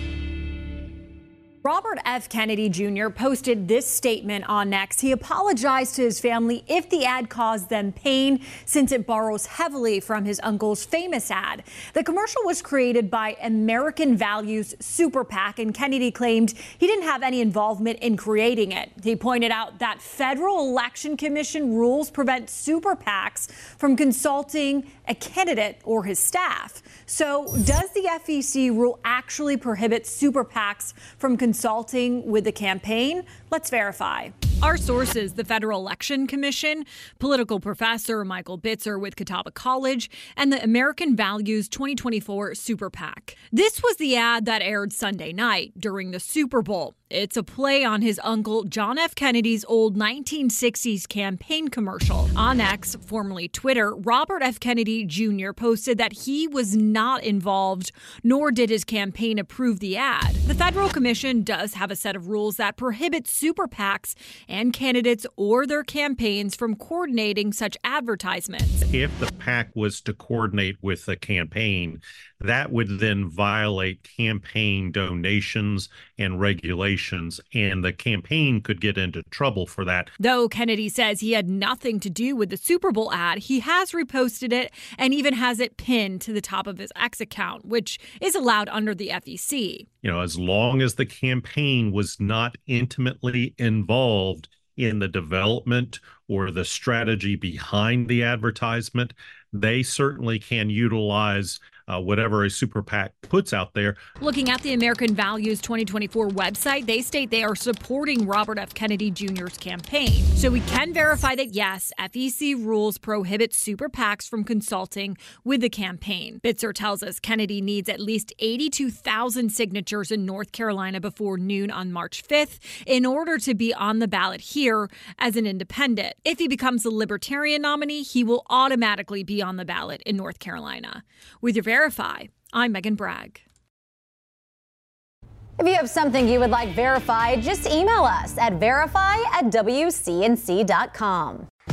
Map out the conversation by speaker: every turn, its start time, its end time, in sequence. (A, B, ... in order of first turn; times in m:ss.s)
0:01.6-1:08.8 A
1:08.9-1:20.1 B
1:20.2-1:29.9 A
1:30.0-1:44.0 B
1:44.2-2:13.4 A
2:15.6-2:21.5 C